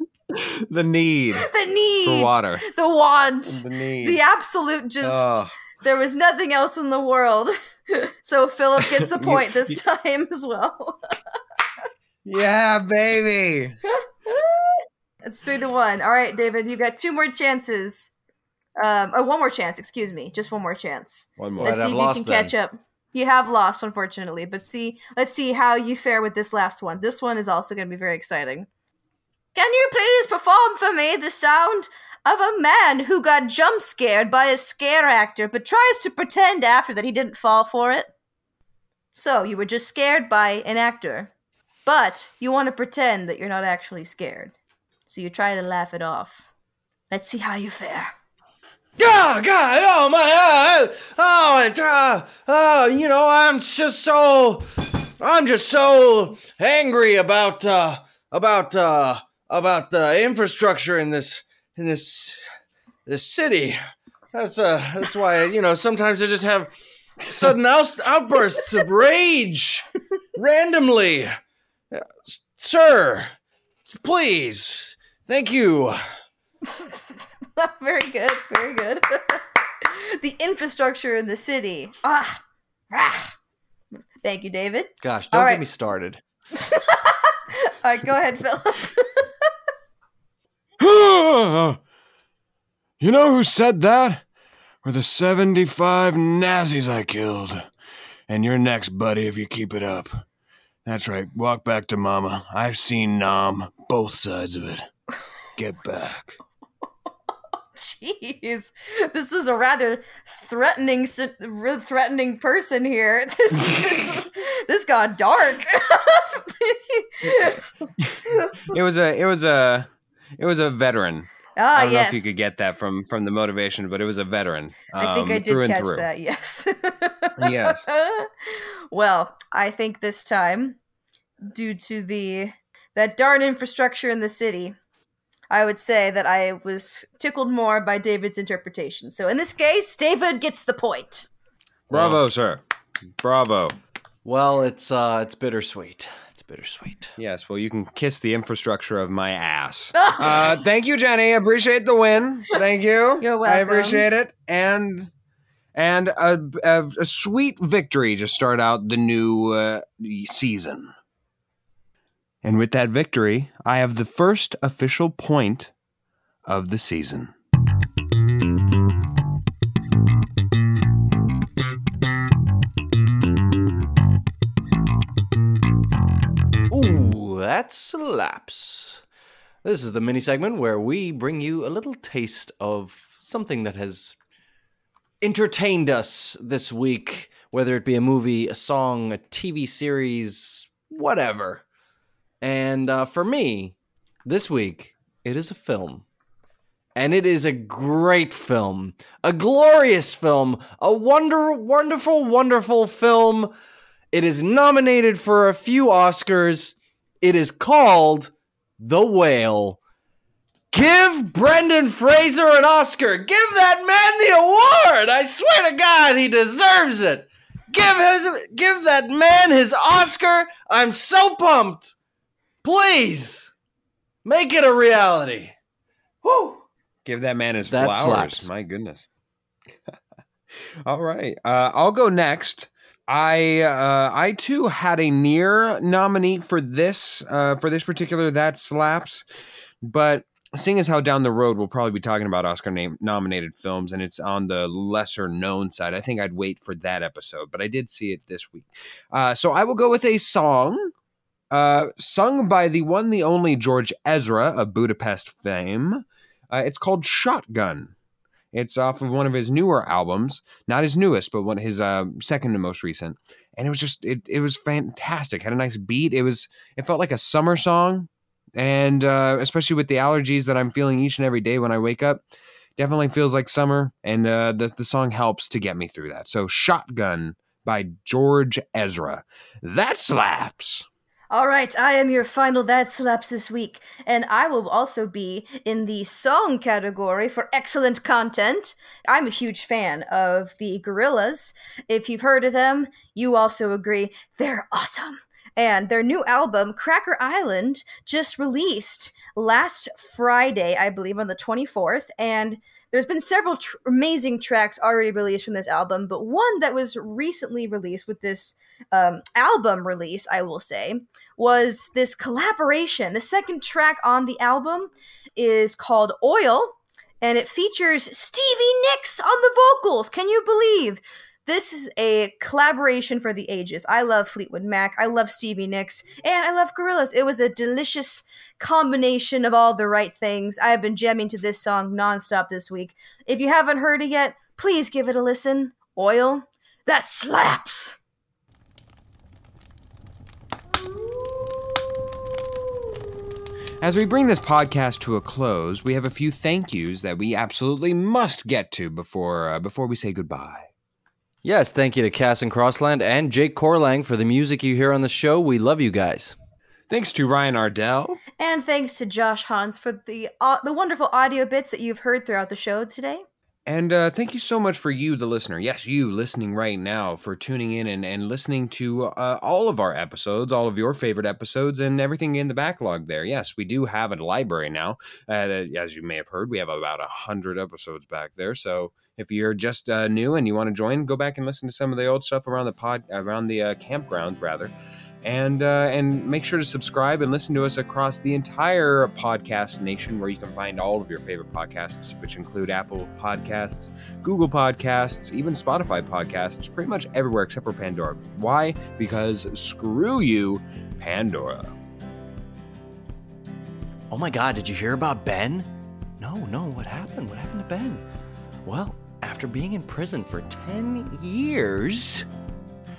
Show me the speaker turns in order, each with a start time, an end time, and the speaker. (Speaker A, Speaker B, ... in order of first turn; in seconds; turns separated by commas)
Speaker A: 0.3-1.5, Speaker B: 1.4-11.0, Speaker A: 2.0-2.6, Speaker A: 3.5-4.2, Speaker A: 5.0-5.5, Speaker A: 8.8-9.8, Speaker A: 12.2-13.8, Speaker B: 13.9-18.1, Speaker B: 18.8-28.7, Speaker A: 21.4-21.8, Speaker C: 21.6-22.5, Speaker B: 29.6-38.1, Speaker B: 39.1-41.3, Speaker B: 41.9-44.5, Speaker B: 45.1-46.5, Speaker B: 47.1-48.1, Speaker C: 49.0-62.4, Speaker C: 63.1-63.8, Speaker C: 64.3-66.7, Speaker C: 67.2-71.3, Speaker C: 71.9-73.3, Speaker C: 73.9-76.0, Speaker B: 77.6-83.4, Speaker B: 84.2-85.6, Speaker C: 85.0-86.2, Speaker B: 86.6-89.5, Speaker A: 90.8-91.8, Speaker A: 93.0-94.2, Speaker A: 94.8-97.7, Speaker A: 98.3-100.2, Speaker A: 100.9-104.9, Speaker A: 105.6-106.4, Speaker B: 107.8-117.7, Speaker A: 118.0-126.1, Speaker B: 118.3-118.7, Speaker B: 121.6-122.4, Speaker B: 125.0-130.8, Speaker A: 127.4-127.8, Speaker B: 131.5-134.8, Speaker B: 135.5-141.3, Speaker A: 141.9-142.6, Speaker C: 141.9-142.2, Speaker A: 143.2-143.8, Speaker C: 144.2-147.2, Speaker A: 147.2-155.1, Speaker B: 150.0-150.3, Speaker B: 153.2-154.1, Speaker A: 155.8-160.9, Speaker A: 162.4-165.7, Speaker A: 166.5-167.3, Speaker C: 176.7-179.0, Speaker C: 179.6-184.2, Speaker C: 185.2-191.6, Speaker C: 192.4-196.0, Speaker C: 197.0-203.5, Speaker C: 204.1-209.8, Speaker C: 210.7-221.9, Speaker C: 222.6-223.5, Speaker C: 224.2-225.6, Speaker C: 226.2-226.6, Speaker A: 227.1-229.1, Speaker C: 227.7-228.5, Speaker A: 230.9-239.3, Speaker A: 239.8-250.9, Speaker A: 251.5-257.9, Speaker A: 258.5-272.2, Speaker A: 272.8-280.9, Speaker B: 281.3-338.0, Speaker A: 343.8-350.7, Speaker C: 351.4-356.4, Speaker A: 356.9-358.2, Speaker B: 358.4-363.2, Speaker A: 363.7-401.7, Speaker C: 404.1-405.7, Speaker C: 406.2-408.0, Speaker C: 408.6-412.3